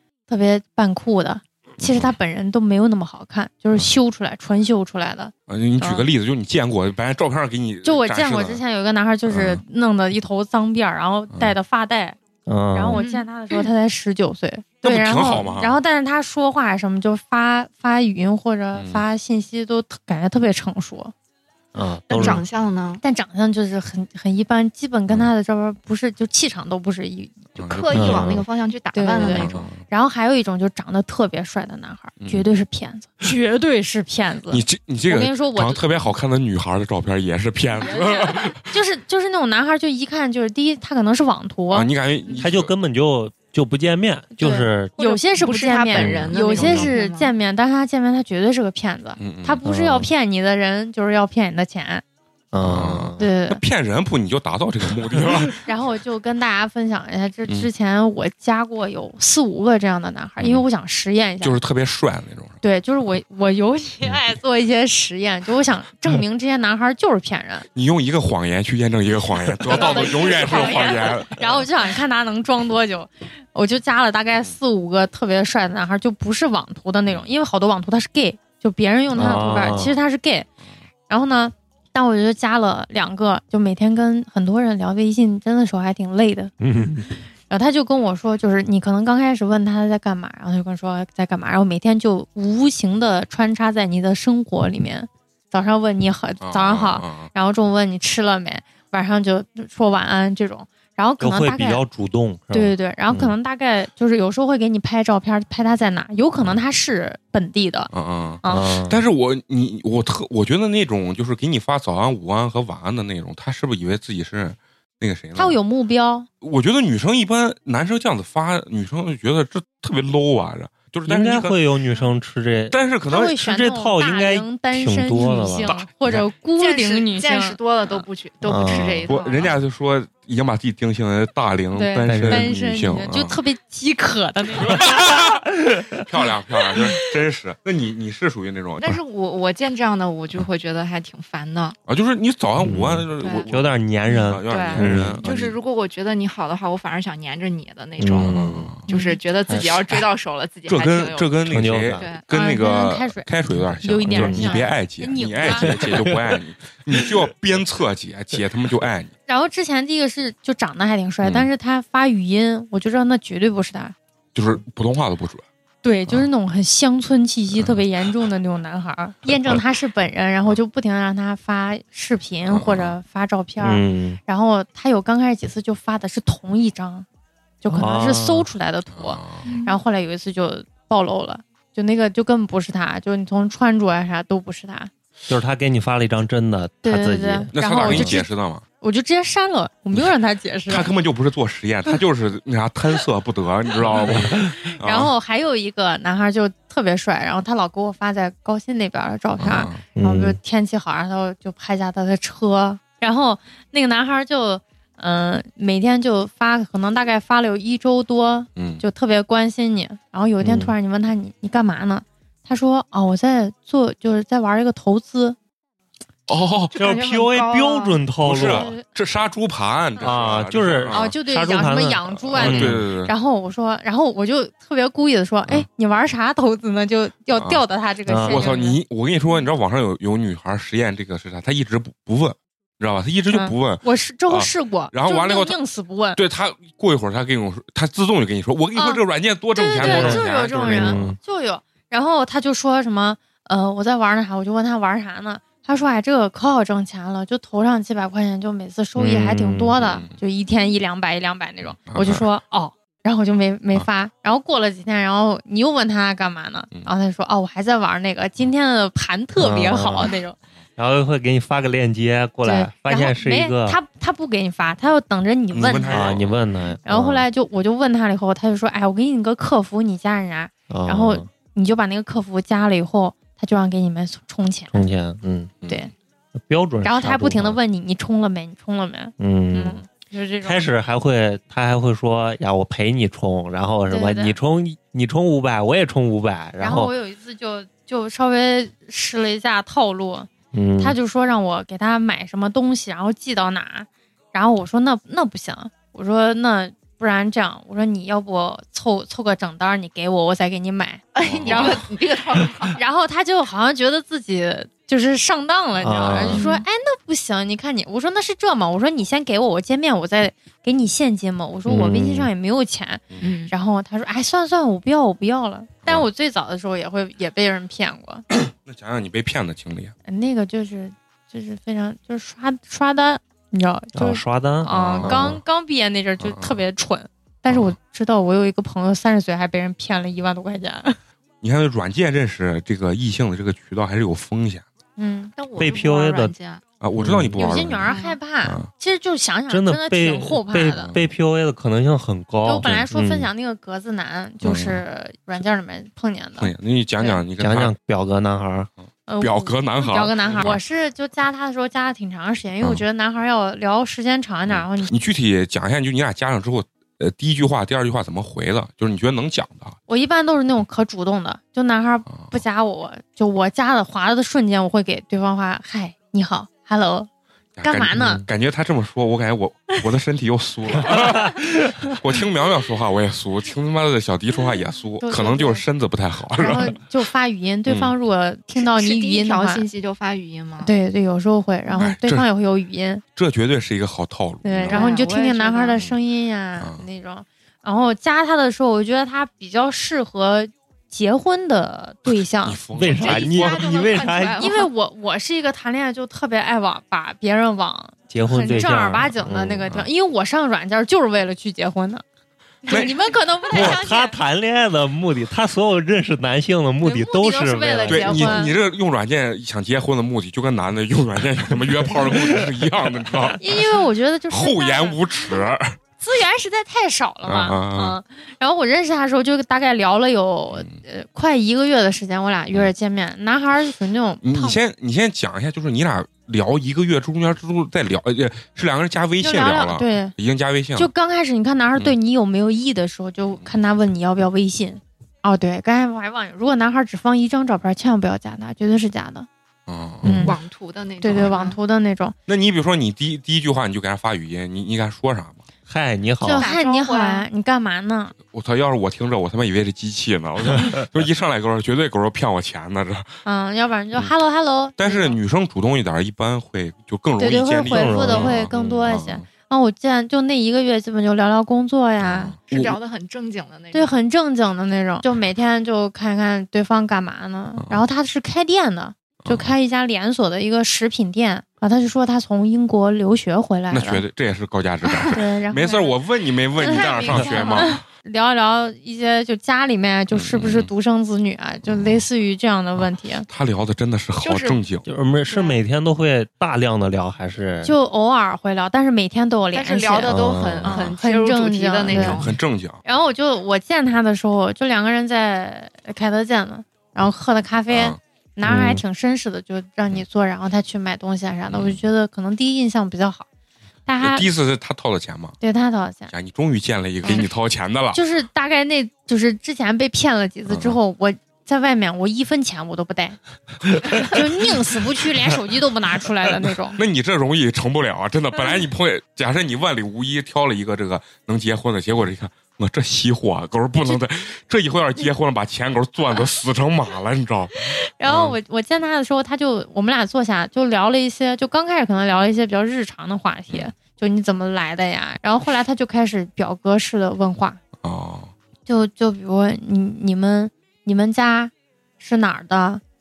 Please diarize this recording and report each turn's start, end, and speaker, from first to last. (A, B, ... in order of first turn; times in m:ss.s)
0:00.3-0:06.1 A
0:01.8-0:02.1 B
0:05.5-0:08.6 B
0:07.8-0:12.2 A
0:09.3-0:09.6 B
0:12.5-0:13.0 C
0:12.7-0:21.1 A
0:13.0-0:13.2 D
0:14.8-0:15.8 B
0:18.7-0:19.0 B
0:21.7-0:22.4 C
0:22.1-0:22.4 A
0:22.1-0:23.0 D
0:23.0-0:27.4 A
0:27.6-0:28.4 B
0:27.6-0:29.7 D
0:27.9-0:28.4 C
0:28.9-0:35.8 A
0:29.1-0:29.8 B
0:32.2-0:32.5 B
0:34.5-0:38.7 B
0:37.8-0:38.4 D
0:38.6-0:41.9 A
0:41.7-0:42.7 B
0:42.4-0:45.1 C
0:44.4-0:52.0 A
0:45.0-0:47.3 D
0:45.9-0:46.9 C
0:49.2-0:49.6 B
0:49.6-0:50.1 C
0:52.5-0:53.2 C
0:52.6-0:55.6 B
0:53.2-0:53.6 A
0:55.6-1:01.6 A
1:00.4-1:00.6 B
1:01.4-1:02.6 B
1:02.6-1:07.7 A
1:07.7-1:11.6 B
1:09.7-1:20.5 A
1:09.8-1:11.2 D
1:19.1-1:20.0 C
1:21.1-1:26.5 A
1:26.6-1:27.1 C
1:27.5-1:41.8 A
1:36.4-1:37.3 B
1:41.2-1:43.4 C
1:42.5-1:47.9 A
1:47.9-1:55.6 B
1:48.4-1:48.7 A
1:48.5-1:49.0 C
1:55.3-1:56.3 A
1:56.4-2:01.6 B
2:01.0-2:06.2 C
2:02.7-2:03.4 B
2:03.1-2:08.0 A
2:06.6-2:09.6 D
2:08.4-2:09.2 C
2:09.1-2:13.4 B
2:11.7-2:15.3 A
2:12.0-2:12.5 C
2:14.6-2:15.3 B
2:14.7-2:15.9 C
2:16.0-2:19.0 B
2:18.8-2:21.8 D
2:21.8-2:25.6 B
2:22.6-2:25.2 C
2:23.2-2:23.5 D
2:24.1-2:31.4 D
2:28.0-2:28.7 C
2:28.2-2:28.8 B
2:28.9-2:29.2 A
2:30.7-2:39.1 B
2:31.4-2:32.1 C
2:31.9-2:32.2 D
2:32.3-2:33.3 A
2:33.8-2:35.8 A
2:34.0-2:34.6 C
2:35.4-2:36.4 C
2:36.9-2:37.3 C
2:39.3-2:43.9 A
2:41.2-2:41.5 B
2:44.3-2:45.4 B
2:45.8-2:57.0 A
2:52.5-2:53.0 B
2:53.6-2:54.2 C
2:57.6-3:04.9 A
2:57.7-2:58.5 C
2:58.9-2:59.4 B
2:59.4-2:59.7 D
3:05.3-3:08.2 C
3:06.8-3:10.9 A
3:07.5-3:08.6 B
3:10.7-3:15.1 B
3:14.4-3:35.4 A
3:19.4-3:19.8 B
3:19.9-3:20.4 C
3:28.6-3:28.8 B
3:30.4-3:30.7 C
3:36.3-3:36.8 B
3:36.7-3:38.1 D
3:36.8-3:38.7 C
3:38.2-3:41.1 B
3:38.3-3:38.8 A
3:40.0-3:48.8 A
3:40.0-3:42.8 C
3:42.3-3:43.1 B
3:47.4-3:47.6 B
3:48.1-3:48.5 C
3:48.2-3:55.6 B
3:53.3-3:56.2 A
3:56.1-4:01.1 B
3:58.7-4:20.4 A
3:59.8-4:01.2 C
4:09.0-4:09.8 C
4:09.8-4:10.1 B
4:11.9-4:12.2 B
4:19.4-4:20.1 C
4:20.8-4:23.8 C
4:22.4-4:26.1 A
4:25.5-4:26.4 B
4:25.9-4:27.2 C
4:26.8-4:34.9 A
4:30.7-4:31.3 C
4:34.7-4:35.5 C
4:35.6-4:35.9 B
4:35.6-4:35.9 A
4:36.4-4:37.6 C
4:36.8-4:40.7 A
4:39.2-4:39.8 C
4:40.4-4:46.9 C
4:43.9-4:44.4 A
4:46.6-5:01.8 A
4:50.5-4:51.0 C
5:01.1-5:02.8 D
5:01.2-5:01.8 B
5:02.7-5:18.2 A
5:05.8-5:06.4 C
5:06.3-5:06.6 D
5:11.7-5:12.3 C
5:13.2-5:13.5 D
5:18.6-5:19.9 B
5:20.1-5:31.0 A
5:23.9-5:25.4 C
5:24.7-5:25.4 B
5:26.2-5:26.6 B
5:27.5-5:27.8 B
5:31.4-5:34.6 B
5:35.0-5:35.3 A
5:35.4-5:36.6 D
5:35.6-5:36.3 C
5:36.8-5:37.9 B
5:37.0-5:37.4 C
5:37.3-5:40.9 A
5:37.8-5:38.2 D
5:39.5-5:43.3 C
5:40.7-5:41.0 B
5:42.4-5:47.2 A
5:44.4-5:44.8 B
5:46.4-5:47.7 B
5:47.4-5:48.7 C
5:49.1-5:54.9 A
5:49.2-5:50.6 B
5:54.5-5:59.8 B
5:59.9-6:07.1 A
6:02.1-6:02.4 B
6:07.6-6:16.8 B
6:07.6-6:08.2 A
6:08.0-6:08.2 C
6:15.0-6:15.6 A
6:16.3-6:19.6 A
6:17.7-6:17.9 B
6:18.6-6:20.7 D
6:20.6-6:23.0 A
6:21.8-6:22.2 B
6:23.2-6:24.9 B
6:24.4-6:32.6 A
6:24.7-6:25.8 D
6:26.6-6:26.8 B
6:32.4-6:34.0 B
6:32.7-6:34.5 C
6:32.9-6:34.7 D
6:34.4-6:42.0 A
6:38.1-6:39.7 C
6:42.6-6:44.2 A
6:42.7-6:43.0 B
6:43.5-6:48.4 C
6:46.8-6:48.5 A
6:47.9-6:53.7 B
6:53.4-6:55.4 A
6:54.3-6:55.8 B
6:56.0-7:04.6 A
6:57.2-6:58.0 B
7:04.2-7:10.9 B
7:09.2-7:10.1 A
7:10.8-7:19.3 A
7:19.7-7:20.1 B
7:20.0-7:20.3 C
7:20.0-7:20.4 A
7:20.2-7:21.6 D
7:21.0-7:22.1 A
7:22.3-7:25.4 B
7:25.6-7:26.5 C
7:26.2-7:28.1 A
7:26.3-7:27.2 D
7:28.3-7:33.1 B
7:33.2-7:35.2 A
7:34.8-7:39.2 B
7:37.2-7:42.3 A
7:37.7-7:38.8 C
7:42.0-7:42.8 B
7:42.5-7:44.0 D
7:43.7-7:54.0 A
7:47.6-7:47.8 B
7:49.2-7:49.5 B
7:53.7-7:57.8 B
7:54.9-7:55.1 D
7:55.1-7:55.9 A
7:56.6-8:03.3 A
7:56.6-7:57.7 D
8:00.1-8:00.7 B
8:01.7-8:02.0 B
8:02.8-8:04.9 B
8:04.2-8:04.6 D
8:04.8-8:07.7 C
8:05.3-8:05.6 D
8:07.6-8:12.2 A
8:09.5-8:12.4 D
8:10.1-8:10.7 C
8:11.9-8:12.2 C
8:12.0-8:12.8 B
8:12.8-8:23.2 A
8:17.7-8:18.0 B
8:18.4-8:18.8 C
8:21.5-8:21.8 B
8:23.8-8:24.3 A
8:24.0-8:25.4 B
8:25.4-8:26.1 A
8:26.1-8:28.0 B
8:27.9-8:33.2 A
8:30.5-8:30.8 B
8:33.8-8:36.8 A
8:36.8-8:48.4 B
8:47.6-8:57.6 A
8:57.8-8:58.3 B
8:58.7-9:02.8 A